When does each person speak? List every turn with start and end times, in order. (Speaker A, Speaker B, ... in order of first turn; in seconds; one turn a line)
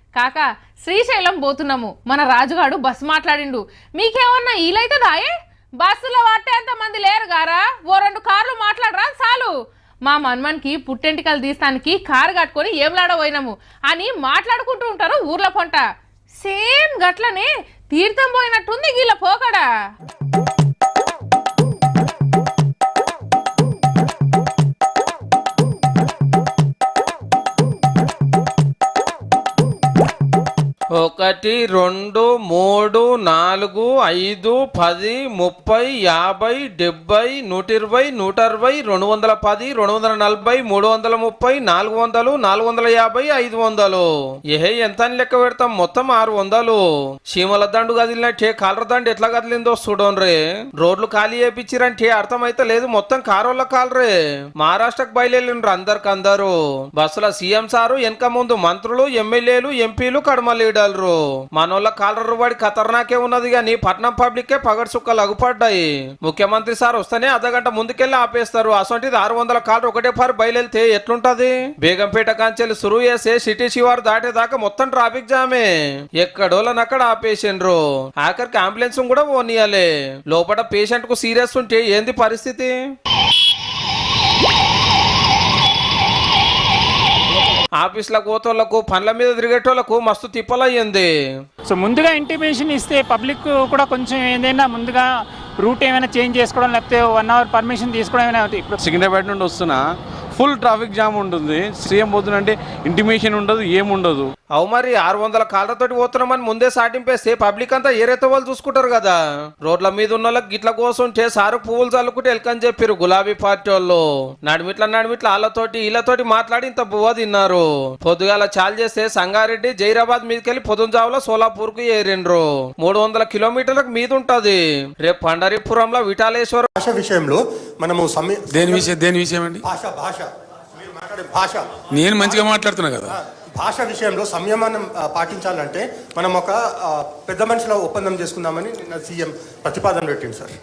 Speaker A: 0.1-9.5
Speaker A: 10.1-15.8
Speaker A: 16.4-19.6
Speaker B: 30.9-46.8
Speaker B: 47.3-82.7
Speaker B: 87.8-91.1
Speaker C: 91.7-98.8
Speaker D: 98.8-104.3
Speaker B: 104.5-126.7
Speaker E: 126.8-128.9
Speaker F: 128.5-129.7
Speaker E: 129.6-131.6
Speaker F: 131.9-133.2
Speaker E: 132.2-140.5